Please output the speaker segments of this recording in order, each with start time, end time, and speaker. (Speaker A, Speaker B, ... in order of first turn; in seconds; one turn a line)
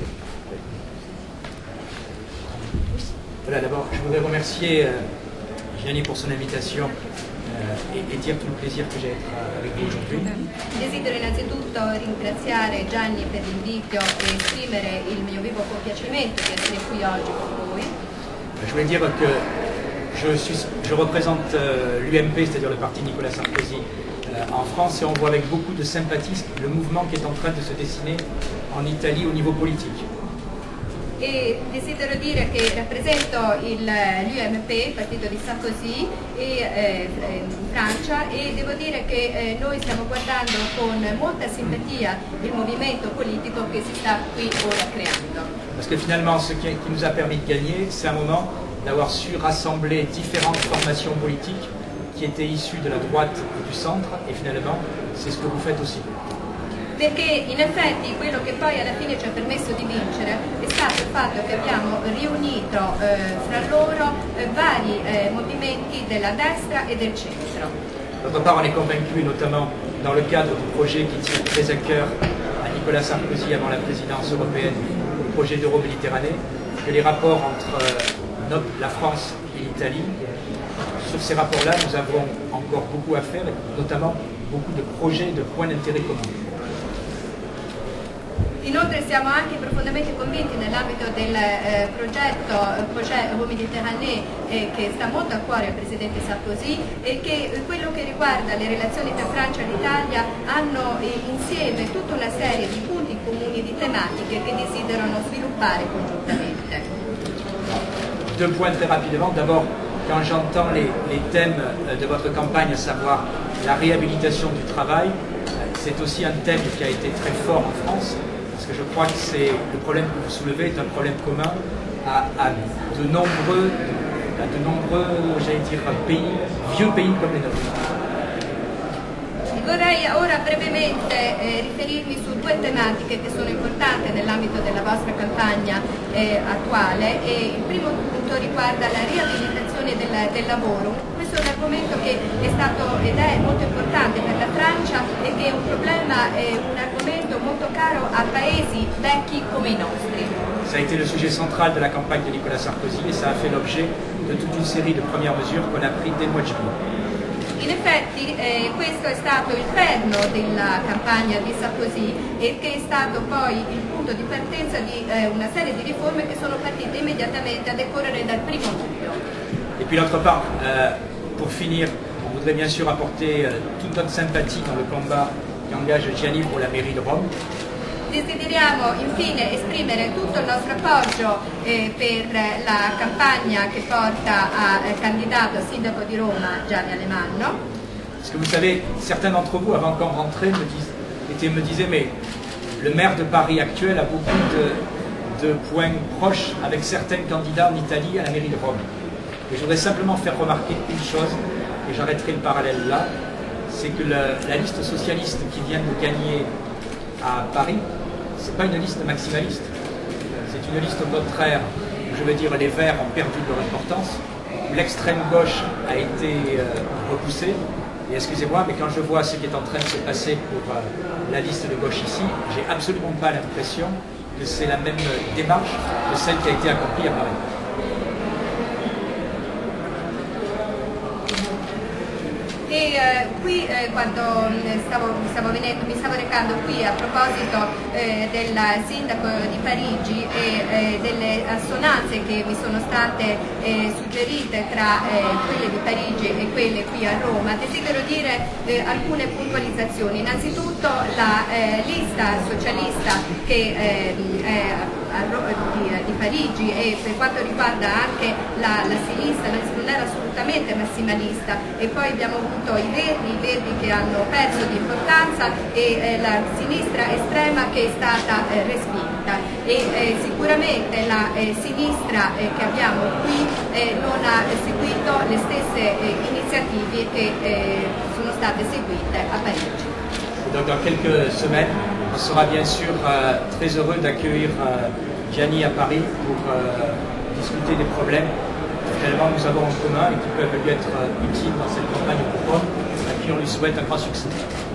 Speaker A: 3.4-5.0
Speaker A: 5.7-6.9
Speaker A: 7.5-10.4
Speaker B: 10.8-17.9
Speaker A: 18.6-19.4
Speaker A: 20.1-30.1
Speaker B: 31.2-45.5
Speaker A: 45.8-56.1
Speaker B: 57.0-67.7
Speaker A: 68.2-80.2
Speaker A: 81.0-86.3
Speaker B: 88.6-106.9
Speaker A: 108.3-127.8
Speaker B: 129.5-150.4
Speaker A: 150.7-156.8
Speaker B: 157.6-169.2
Speaker A: 169.8-177.3
Speaker B: 178.1-187.6
Speaker A: 188.2-192.1
Speaker A: 192.8-194.8
Speaker A: 195.3-198.8
Speaker A: 199.5-203.1
Speaker A: 203.7-206.5
Speaker A: 207.2-207.8
Speaker A: 208.4-209.7
Speaker A: 210.4-227.4
Speaker B: 232.7-279.9
Speaker A: 280.4-288.3
Speaker A: 288.9-294.4